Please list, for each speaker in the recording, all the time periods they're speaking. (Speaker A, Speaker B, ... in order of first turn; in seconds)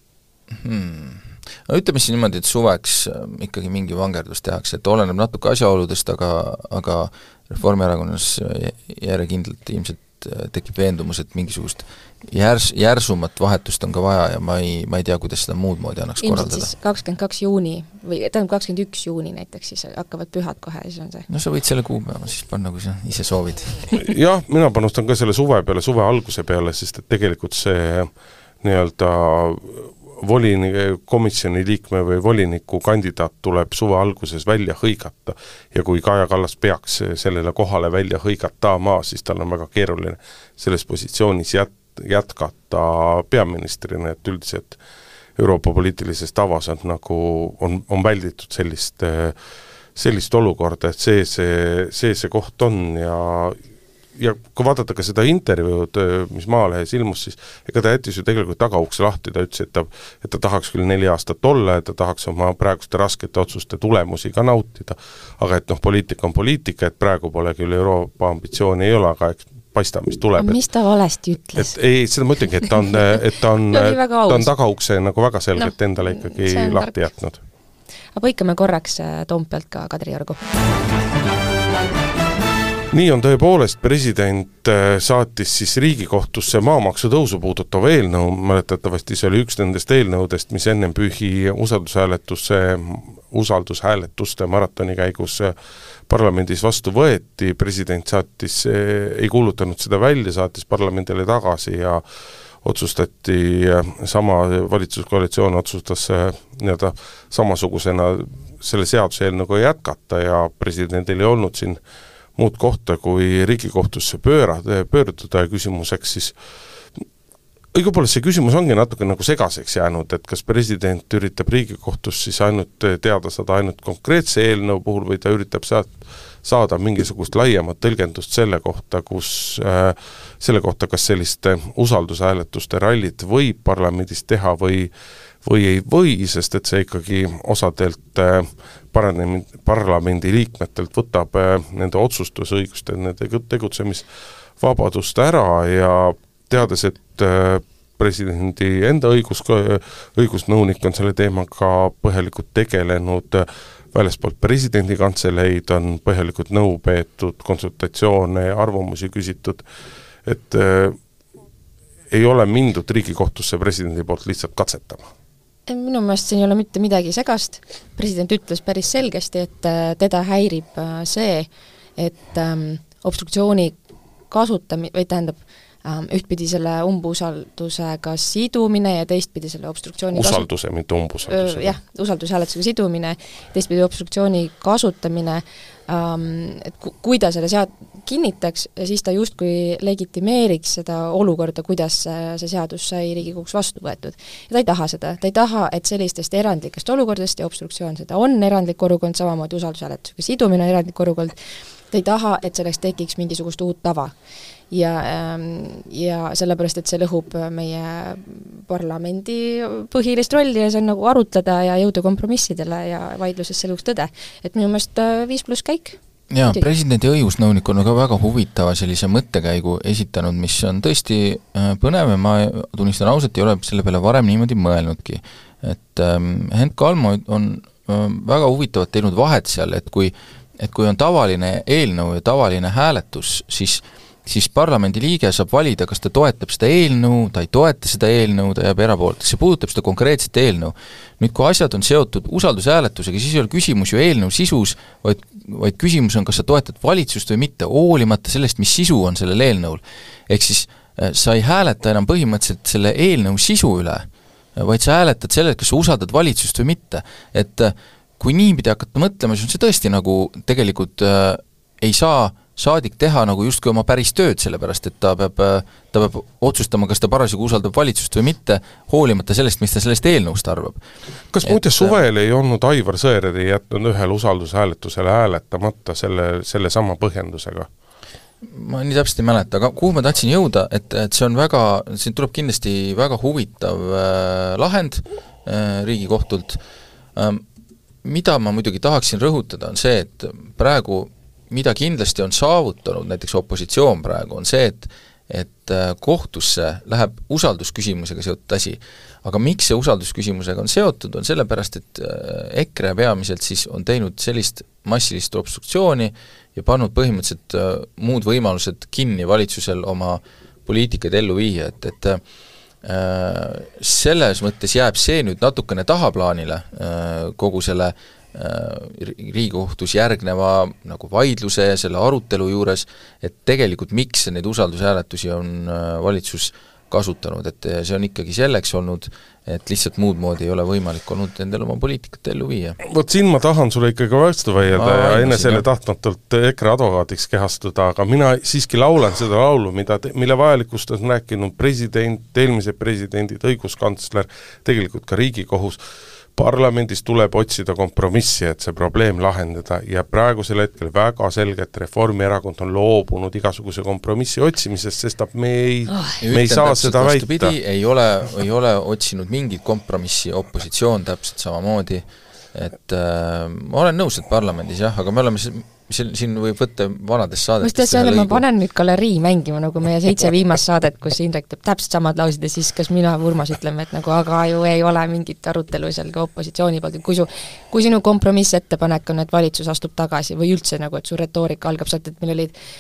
Speaker A: 0.5-16.7, 21.3-23.9, 216.3-270.8, 271.4-272.0, 278.4-286.6, 287.1-287.4, 288.0-312.2, 312.8-332.8, 334.7-335.7, 356.2-368.4
Speaker B: 16.2-21.3, 70.4-71.8, 73.7-74.5, 75.6-77.0, 78.2-80.4, 165.7-173.8, 174.3-180.5, 181.3-201.3, 201.9-204.1, 204.7-216.7, 355.9-356.2, 367.6-382.5
Speaker C: 24.0-28.1, 28.6-44.8, 45.4-49.4, 50.0-53.6, 54.2-70.6, 71.6-77.4, 82.9-95.5, 96.1-102.0, 102.6-111.8, 112.4-116.4, 117.7-134.9, 135.4-144.1, 144.6-159.6, 160.2-161.0, 162.1-165.1, 180.1-181.7, 271.3-277.7, 332.8-345.8, 346.4-357.5